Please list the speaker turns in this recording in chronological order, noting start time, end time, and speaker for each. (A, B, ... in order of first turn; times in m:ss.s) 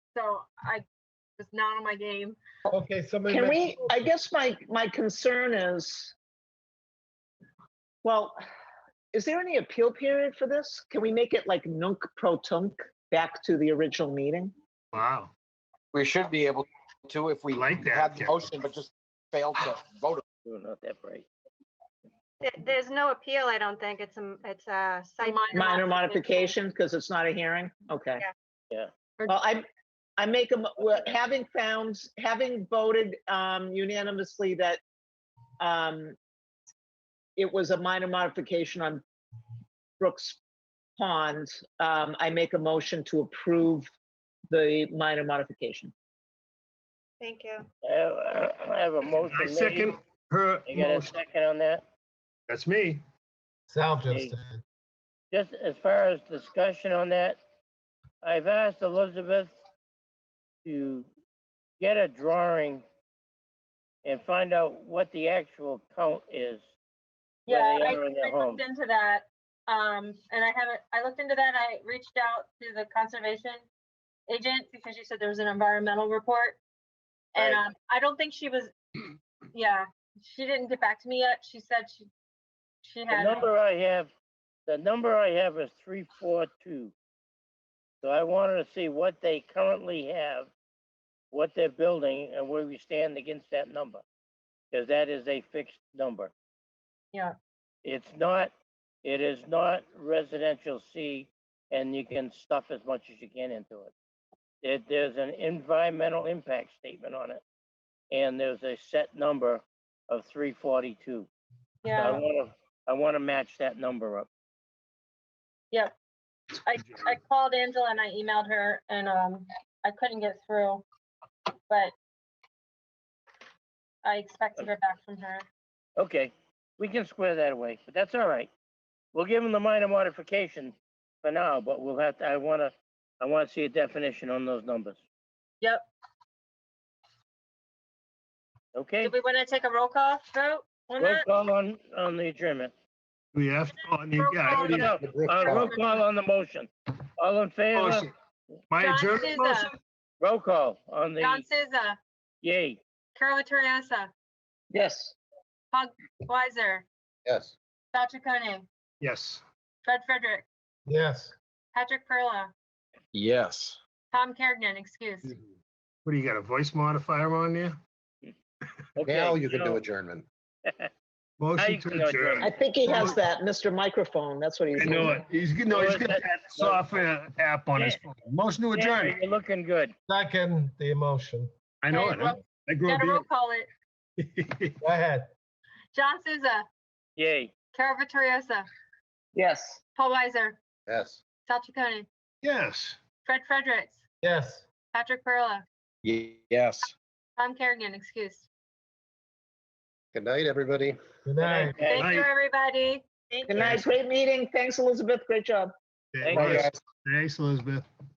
0:00.1-0:00.8 A
0:01.4-0:02.4 A
0:02.7-0:04.1 B
0:03.3-0:06.1 C
0:08.0-0:08.4 C
0:09.1-0:14.5 C
0:14.9-0:15.3 D
0:15.9-0:20.2 E
0:17.5-0:18.6 D
0:20.4-0:21.3 F
0:22.4-0:26.6 G
0:25.2-0:25.8 A
0:25.5-0:28.2 C
0:29.3-0:29.6 C
0:30.2-0:34.8 C
0:35.6-0:36.2 C
0:37.4-0:39.0 C
0:40.0-0:40.4 C
0:41.0-0:43.9 C
0:44.5-0:45.9 C
0:47.2-0:47.7 G
0:47.8-0:50.0 F
0:49.1-0:51.2 D
0:50.6-0:51.8 F
0:52.5-0:53.0 D
0:53.7-0:54.6 B
0:54.1-0:54.4 F
0:55.3-0:57.4 F
0:58.2-0:59.5 F
1:00.6-1:01.1 F
1:01.8-1:02.8 F
1:04.0-1:06.6 F
1:07.5-1:13.6 A
1:07.5-1:08.6 F
1:14.3-1:16.6 A
1:17.3-1:18.7 A
1:17.4-1:17.6 F
1:19.5-1:22.1 A
1:22.8-1:23.4 A
1:23.1-1:24.1 F
1:24.7-1:26.9 F
1:28.0-1:30.5 F
1:31.3-1:34.0 F
1:34.7-1:36.3 F
1:37.8-1:38.5 F
1:39.0-1:43.9 F
1:44.6-1:47.4 F
1:48.1-1:51.3 F
1:51.8-1:52.2 A
1:51.9-1:54.3 F
1:56.6-2:00.8 A
2:04.0-2:05.4 A
2:06.0-2:08.5 F
2:09.1-2:15.0 F
2:15.6-2:15.9 A
2:18.7-2:19.1 F
2:19.0-2:21.2 A
2:21.0-2:22.7 F
2:23.3-2:25.6 D
2:24.1-2:25.9 A
2:24.5-2:28.1 F
2:27.7-2:28.1 D
2:28.7-2:29.7 D
2:28.8-2:29.7 A
2:30.2-2:31.4 F
2:31.2-2:32.0 A
2:32.4-2:32.8 F
2:33.1-2:34.1 A
2:34.7-2:35.1 C
2:35.7-2:36.8 A
2:37.9-2:38.6 A
2:39.0-2:39.4 D
2:39.8-2:40.4 A
2:40.9-2:41.3 B
2:41.7-2:42.5 A
2:43.1-2:43.8 E
2:44.1-2:45.3 A
2:46.0-2:47.8 D
2:49.0-2:49.9 F
2:49.0-2:50.2 E
2:51.4-2:53.0 D
2:51.6-2:52.6 F
2:52.4-2:55.2 C
2:52.8-2:53.1 B
2:54.8-2:59.2 D
2:54.8-2:55.1 F
2:55.7-2:56.9 F
2:58.7-2:59.9 F
3:00.1-3:01.5 B
3:01.8-3:03.2 D
3:01.9-3:03.7 A
3:04.2-3:04.8 D
3:04.8-3:05.3 B
3:05.9-3:06.6 A
3:07.2-3:07.5 F
3:07.7-3:08.7 A
3:09.3-3:09.8 C
3:10.0-3:10.6 A
3:10.9-3:11.2 E
3:11.4-3:12.1 A
3:12.4-3:13.0 D
3:13.2-3:14.0 A
3:14.2-3:14.6 B
3:14.9-3:15.6 A
3:16.0-3:16.9 E
3:17.4-3:18.5 A
3:20.1-3:21.0 E
3:21.2-3:21.8 B
3:21.4-3:22.1 F
3:21.8-3:23.8 A
3:22.0-3:22.3 D
3:23.5-3:25.7 C
3:26.2-3:26.7 F
3:26.2-3:27.8 D
3:26.3-3:26.8 E